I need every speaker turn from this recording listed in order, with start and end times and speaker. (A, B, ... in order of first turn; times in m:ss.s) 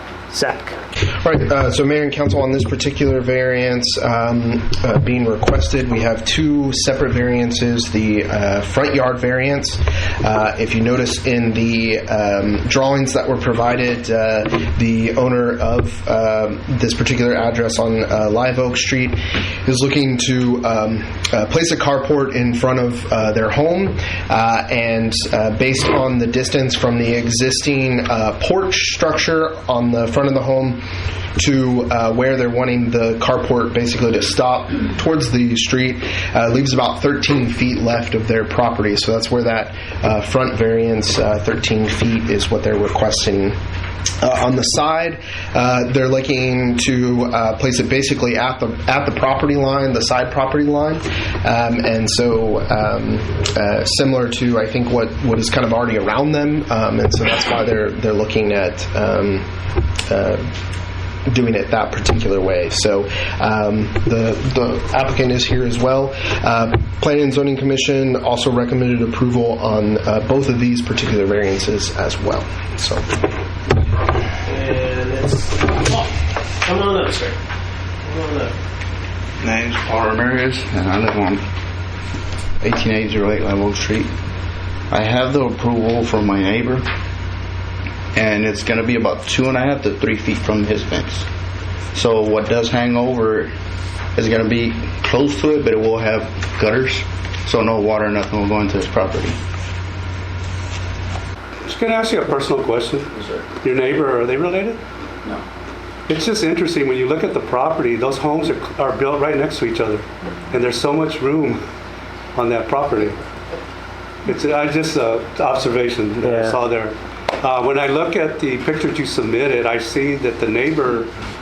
0:00.3-0:00.8 A
0:01.2-0:43.6 B
0:44.2-0:59.5 B
1:00.1-1:00.4 B
1:01.3-1:13.1 B
1:14.5-1:16.1 A
1:16.6-1:17.4 A
1:18.0-1:18.6 A
1:19.4-1:21.4 C
1:22.6-1:24.1 C
1:24.9-1:26.9 C
1:28.2-1:31.3 C
1:31.9-1:33.5 C
1:34.2-1:39.4 C
1:41.7-1:44.8 D
1:43.1-1:43.4 C
1:46.1-1:51.6 D
1:52.4-1:53.2 D
1:54.2-2:01.1 D
1:56.2-1:56.6 A